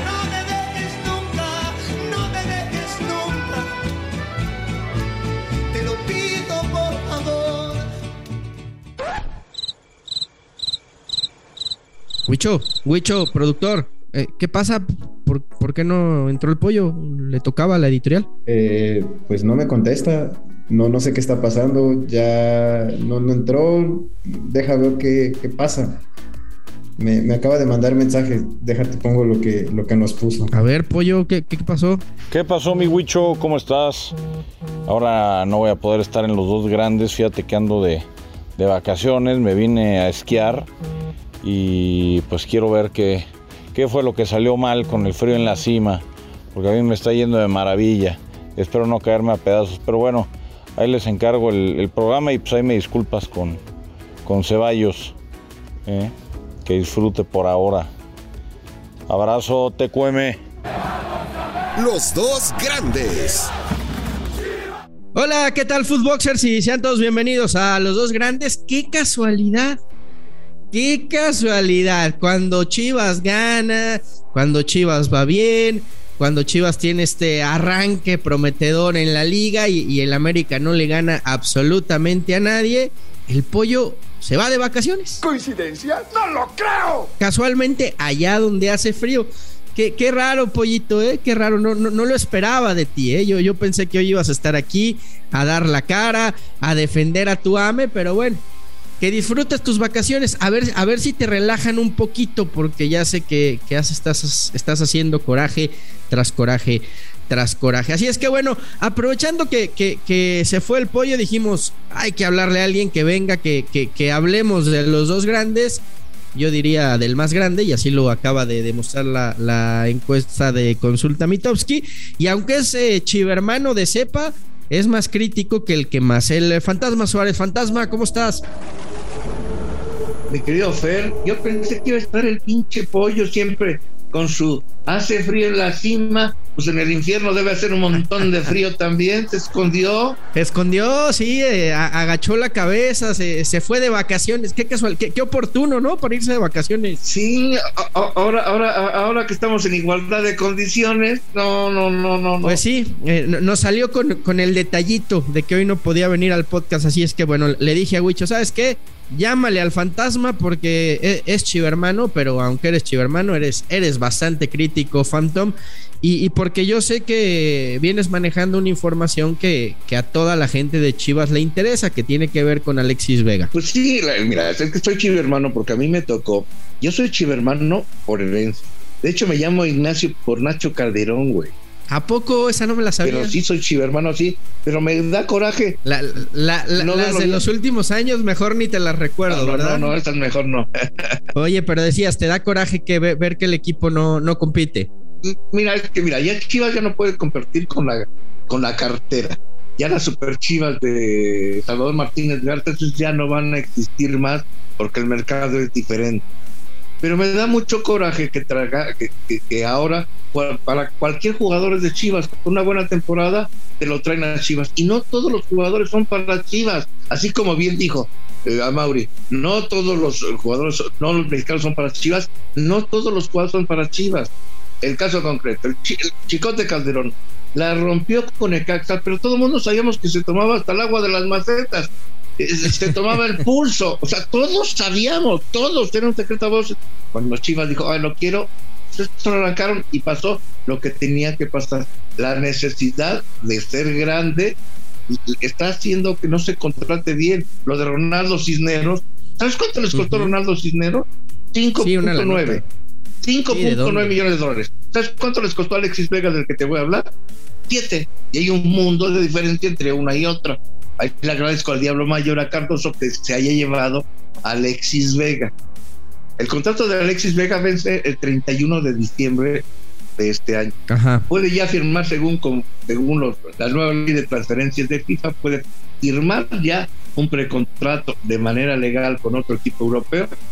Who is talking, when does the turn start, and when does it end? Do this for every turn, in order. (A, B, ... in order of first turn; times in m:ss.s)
0:02.3-0:03.3 A
0:05.9-0:06.4 A
0:12.3-0:18.3 B
0:18.5-0:26.0 A
0:27.0-0:30.5 A
0:30.5-0:32.0 B
0:32.3-0:34.2 C
0:34.9-0:40.7 C
0:41.4-0:53.6 C
0:54.2-0:55.2 C
0:55.8-0:56.1 C
0:56.6-0:57.9 C
0:59.1-1:00.4 C
1:01.8-1:03.5 D
1:05.1-1:09.8 B
1:10.7-1:25.2 B
1:25.2-1:27.1 D
1:27.2-1:38.4 B
1:39.0-1:55.8 B
1:56.3-2:08.4 B
2:10.3-2:20.2 E
2:20.3-2:27.0 B
2:27.0-2:32.6 E
2:32.4-2:53.5 B
2:53.5-3:01.5 E
3:01.9-3:03.3 B
3:03.0-3:05.8 E
3:05.8-3:09.8 B
3:06.8-3:07.4 E
3:09.3-3:11.2 E
3:11.3-3:14.9 B
3:15.2-3:26.3 E
3:27.0-4:04.6 E
4:05.1-4:12.6 E
4:09.9-4:10.3 B
4:11.8-4:12.6 B
4:13.2-4:17.1 E
4:13.5-4:14.2 B
4:17.7-4:25.5 E
4:26.4-4:29.6 E
4:30.2-4:40.3 E
4:30.9-4:31.2 B